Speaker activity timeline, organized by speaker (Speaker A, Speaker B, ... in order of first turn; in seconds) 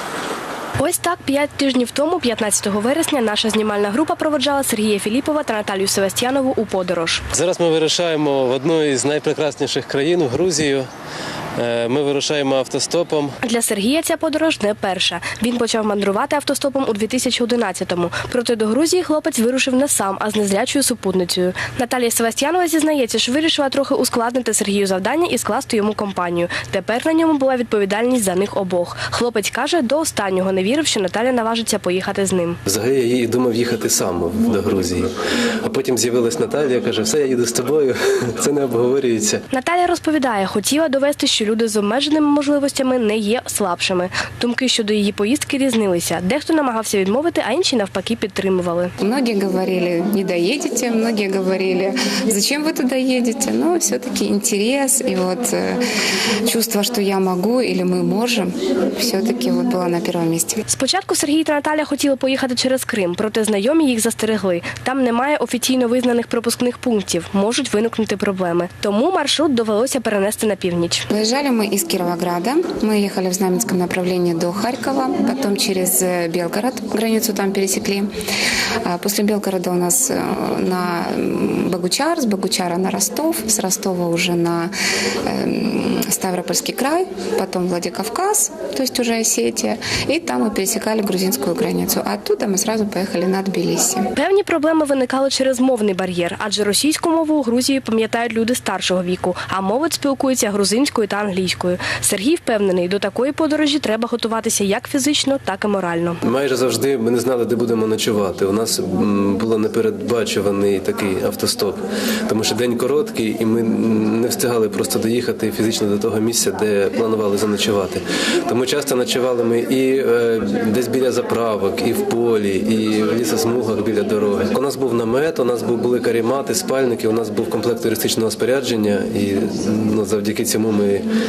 Speaker A: 0.8-7.2, 13.4-32.6, 39.5-48.9, 60.7-71.0, 94.2-106.2
Speaker B: 7.3-10.9, 11.6-13.4, 32.6-35.1, 35.6-39.4, 106.2-131.1
Speaker C: 49.0-55.8, 56.5-60.6, 71.1-78.1, 78.8-84.7, 85.2-94.1